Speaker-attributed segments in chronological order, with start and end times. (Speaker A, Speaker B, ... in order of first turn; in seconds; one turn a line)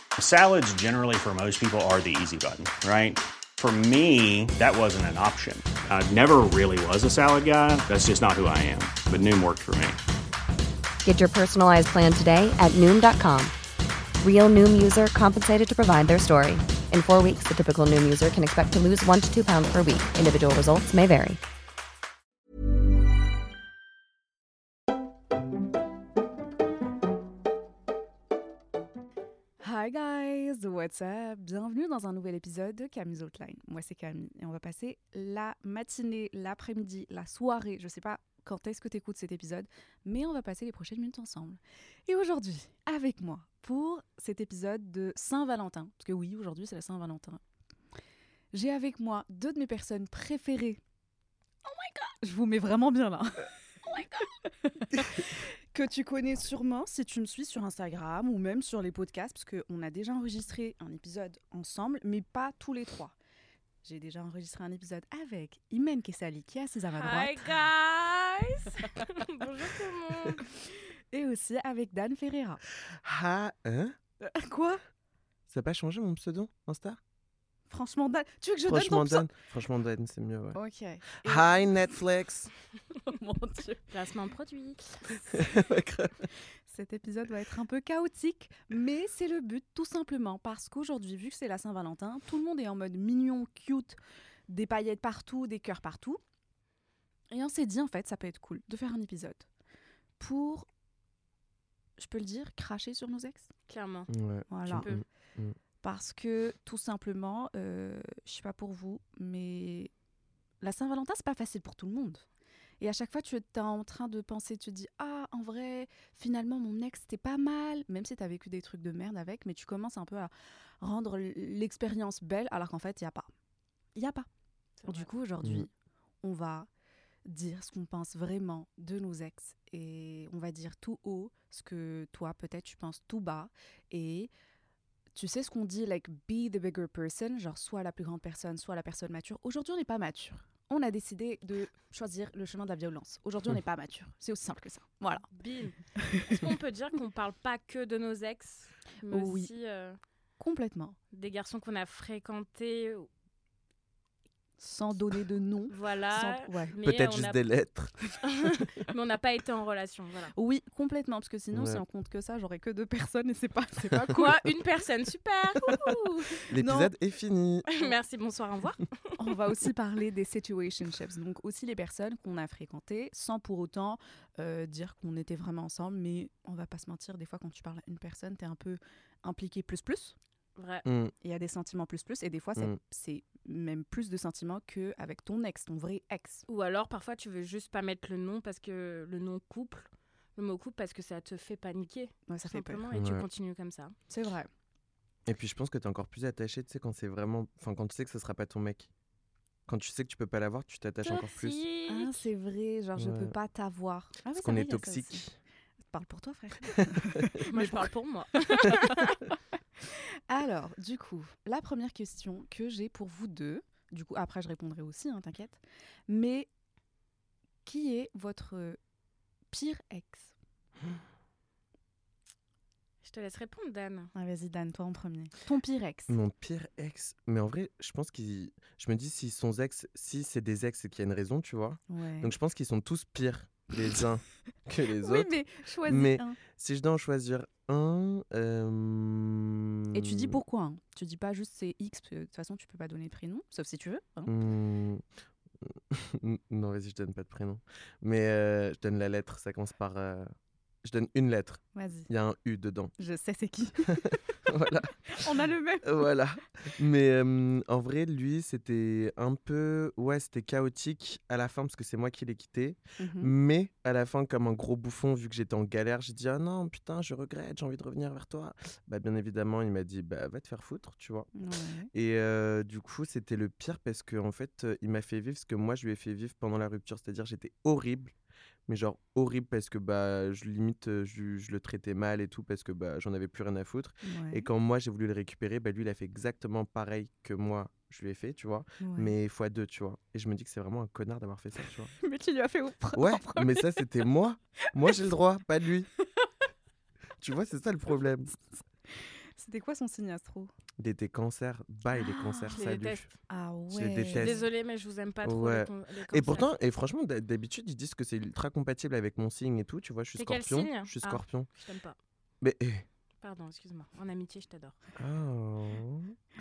Speaker A: 0.2-10.0
Speaker B: 11.0-13.5
Speaker B: 14.2-21.4
Speaker C: 29.6-47.4
Speaker C: 48.5-50.8
Speaker D: 51.6-52.1
Speaker C: 52.2-53.5
Speaker D: 53.8-54.3
Speaker C: 54.5-63.1
Speaker C: 63.8-67.4
Speaker D: 67.0-70.4
Speaker C: 71.1-72.6
Speaker E: 72.9-73.9
Speaker C: 74.2-74.8
Speaker E: 75.5-77.0
Speaker C: 77.7-79.3
Speaker E: 78.7-80.6
Speaker C: 80.5-81.7
Speaker E: 81.2-82.5
Speaker C: 83.0-83.8
Speaker D: 83.9-85.0
Speaker E: 85.3-86.2
Speaker C: 86.7-94.0
Speaker C: 94.5-96.2
Speaker C: 97.3-99.5
Speaker C: 100.2-100.7
Speaker C: 102.0-103.5
Speaker D: 103.7-104.1
Speaker E: 104.1-105.6
Speaker C: 104.5-104.9
Speaker D: 104.7-105.0
Speaker C: 105.8-109.9
Speaker C: 110.6-112.2
Speaker C: 112.8-123.3
Speaker C: 123.9-124.3
Speaker D: 124.8-125.1
Speaker C: 124.9-125.7
Speaker C: 126.2-126.7
Speaker C: 127.2-134.3
Speaker C: 135.1-145.3
Speaker D: 145.3-150.0
Speaker C: 146.0-146.4
Speaker C: 149.1-149.5
Speaker C: 150.4-150.9
Speaker D: 151.1-153.1
Speaker C: 154.6-156.7
Speaker D: 155.7-157.4
Speaker E: 156.8-157.9
Speaker D: 158.3-160.3
Speaker C: 160.3-164.5
Speaker E: 161.5-161.8
Speaker D: 164.1-166.0
Speaker C: 165.7-166.9
Speaker E: 166.5-167.7
Speaker D: 167.7-169.2
Speaker C: 169.2-180.2
Speaker D: 180.6-180.8
Speaker E: 180.8-181.1
Speaker C: 181.2-186.4
Speaker D: 186.5-193.9
Speaker C: 192.3-192.8
Speaker E: 192.9-193.2
Speaker C: 194.1-194.5
Speaker E: 195.2-198.9
Speaker E: 199.7-201.6
Speaker D: 201.0-202.2
Speaker C: 201.9-205.2
Speaker E: 203.0-203.3
Speaker E: 204.3-205.3
Speaker C: 205.9-207.8
Speaker D: 207.4-209.2
Speaker C: 208.6-209.1
Speaker C: 210.3-216.5
Speaker C: 217.7-218.8
Speaker C: 219.5-220.3
Speaker D: 223.0-224.1
Speaker C: 224.1-226.2
Speaker E: 226.1-235.3
Speaker C: 231.9-232.3
Speaker C: 235.0-236.4
Speaker E: 235.8-240.4
Speaker C: 239.9-244.3
Speaker E: 244.2-245.0
Speaker E: 245.6-250.3
Speaker E: 250.8-252.9
Speaker C: 251.7-252.1
Speaker C: 253.0-254.3
Speaker E: 254.5-255.0
Speaker C: 255.1-256.1
Speaker E: 255.8-271.3
Speaker C: 263.0-263.3
Speaker C: 271.4-271.9
Speaker E: 271.9-278.1
Speaker E: 278.7-291.9
Speaker C: 284.0-284.5
Speaker C: 288.8-289.1
Speaker C: 292.0-293.8
Speaker E: 292.9-295.9
Speaker E: 297.2-298.3
Speaker C: 298.9-300.5
Speaker E: 300.8-303.1
Speaker C: 301.9-302.6
Speaker D: 302.6-303.1
Speaker C: 303.3-304.4
Speaker E: 303.7-304.4
Speaker D: 304.1-306.5
Speaker E: 305.2-311.5
Speaker D: 310.2-312.0
Speaker E: 312.4-312.9
Speaker D: 313.2-314.8
Speaker E: 315.0-316.1